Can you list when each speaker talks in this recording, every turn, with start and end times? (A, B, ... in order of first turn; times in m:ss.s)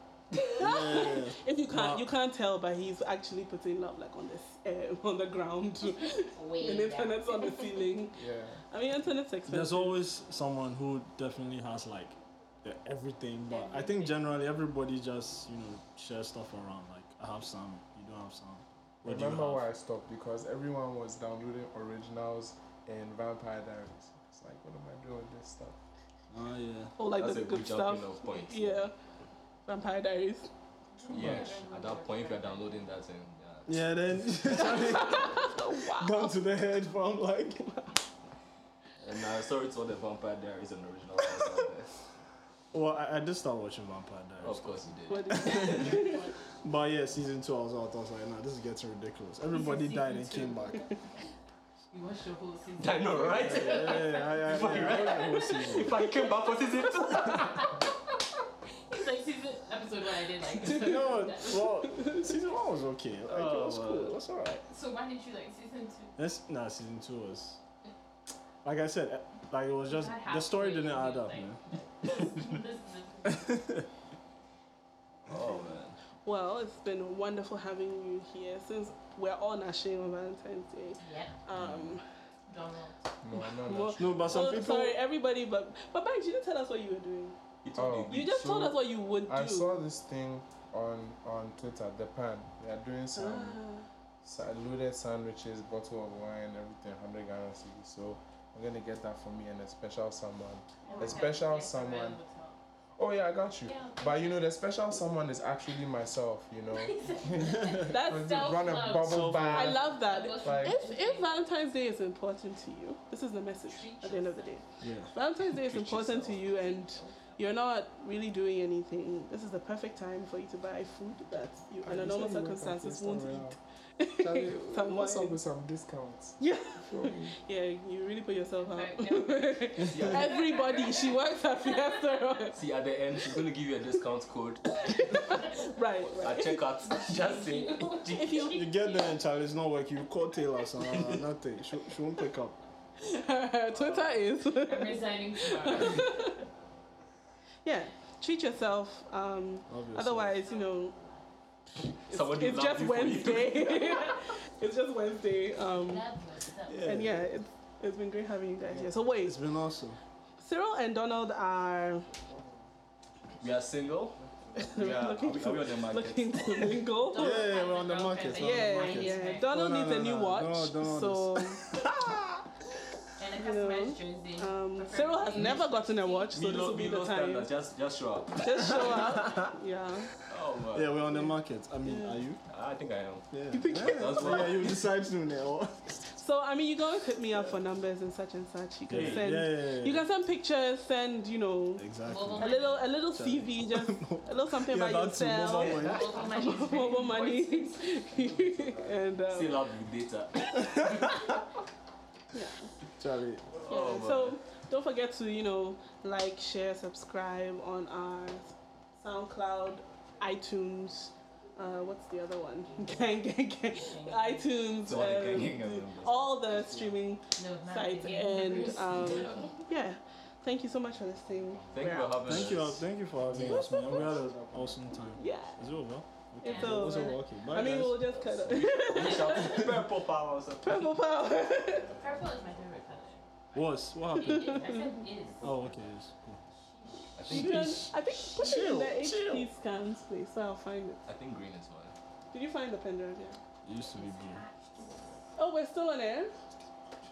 0:00.4-0:08.2 A
0:00.6-0:02.1 B
0:05.8-0:07.9 C
0:08.2-0:08.6 D
0:08.7-0:10.0 A
0:09.5-0:19.6 B
0:13.5-0:14.1 C
0:19.0-0:25.8 D
0:26.3-0:26.9 B
0:27.0-0:28.9 A
0:27.1-0:28.9 E
0:29.6-0:30.5 A
0:30.9-0:32.9 C
0:31.1-0:34.8 E
0:31.1-0:31.5 B
0:33.7-0:37.7 B
0:34.5-0:36.4 A
0:37.6-0:37.9 A
0:39.0-0:41.9 E
0:42.7-0:46.0 B
0:44.4-0:46.0 E
0:45.1-0:46.2 A
0:45.4-0:46.3 C
0:46.6-0:50.9 B
0:49.5-0:50.8 C
0:49.5-0:51.0 A
0:51.9-0:55.5 C
0:52.8-0:57.8 E
0:53.3-0:55.9 B
0:58.9-1:01.9 C
1:00.6-1:04.7 B
1:03.3-1:04.1 E
1:04.7-1:06.1 C
1:06.2-1:07.6 B
1:08.6-1:11.6 B
1:09.8-1:13.6 C
1:13.3-1:13.8 B
1:15.2-1:16.0 E
1:16.2-1:22.0 A
1:21.0-1:21.4 C
1:21.5-1:22.0 E
1:22.5-1:23.0 C
1:23.2-1:24.6 D
1:23.6-1:27.4 A
1:24.0-1:25.0 B
1:27.6-1:28.4 E
1:27.7-1:33.6 D
1:28.1-1:29.8 A
1:33.1-1:33.8 A
1:34.2-1:42.2 D
1:40.8-1:42.6 C
1:40.8-1:41.4 A
1:43.0-1:50.8 D
1:43.6-1:44.2 C
1:46.7-1:51.3 C
1:47.8-1:48.5 A
1:49.0-1:49.9 B
1:49.5-2:05.4 A
1:53.6-1:54.6 C
1:54.8-1:55.1 B
1:55.5-1:56.6 E
2:01.8-2:03.6 D
2:04.2-2:07.4 D
2:06.4-2:12.6 A
2:08.6-2:11.9 C
2:09.8-2:10.4 E
2:12.5-2:15.3 E
2:14.8-2:16.8 A
2:16.2-2:18.4 E
2:16.9-2:19.2 C
2:18.0-2:18.6 A
2:18.4-2:22.6 B
2:20.9-2:21.2 E
2:23.0-2:26.4 A
2:24.4-2:26.4 C
2:27.6-2:30.9 A
2:29.7-2:30.4 B
2:30.3-2:31.3 C
2:32.0-2:34.0 E
2:32.1-2:36.1 A
2:35.8-2:37.0 C
2:36.7-2:37.2 B
2:36.8-2:39.4 A
2:38.7-2:40.0 B
2:40.4-2:42.1 A
2:43.4-2:46.8 E
2:44.5-2:47.6 A
2:47.0-2:49.5 C
2:47.2-2:52.4 B
2:48.3-2:51.7 A
2:53.2-2:56.4 C
2:53.3-2:57.5 A
2:56.3-2:58.9 E
2:58.4-3:00.1 A
2:59.2-2:59.4 B
3:00.3-3:01.0 E
3:00.7-3:02.4 B
3:01.8-3:02.2 A
3:02.5-3:04.8 E
3:03.3-3:06.0 B
3:03.5-3:04.6 A
3:06.1-3:19.6 A
3:08.9-3:10.0 B
3:08.9-3:09.2 E
3:11.8-3:12.6 B
3:12.0-3:12.9 C
3:13.1-3:16.1 B
3:15.5-3:18.0 C
3:15.5-3:15.9 E
3:18.4-3:18.8 D
3:19.3-3:21.3 E
3:22.3-3:22.7 A
3:23.0-3:23.4 B
3:23.6-3:24.4 E
3:23.7-3:42.6 A
3:32.8-3:34.6 C
3:34.8-3:36.5 E
3:37.4-3:39.6 C
3:41.7-3:42.8 E
3:42.2-3:48.2 B
3:43.2-3:44.8 D
3:43.4-3:44.2 A
3:45.1-3:45.8 A
3:46.4-3:49.9 A
3:46.4-3:47.1 C
3:48.4-3:50.9 E
3:49.1-3:49.7 C
3:50.6-3:51.9 A
3:51.9-3:53.2 C
3:53.5-3:54.8 B
3:54.1-3:55.7 C
3:54.2-3:55.0 A
3:55.4-3:56.4 B
3:56.5-3:57.2 C
3:57.2-3:57.9 E
3:57.2-3:59.5 B
3:57.3-4:01.0 A
4:01.0-4:01.9 E
4:02.3-4:03.4 A
4:03.6-4:04.4 B
4:03.9-4:05.2 C
4:05.4-4:06.3 A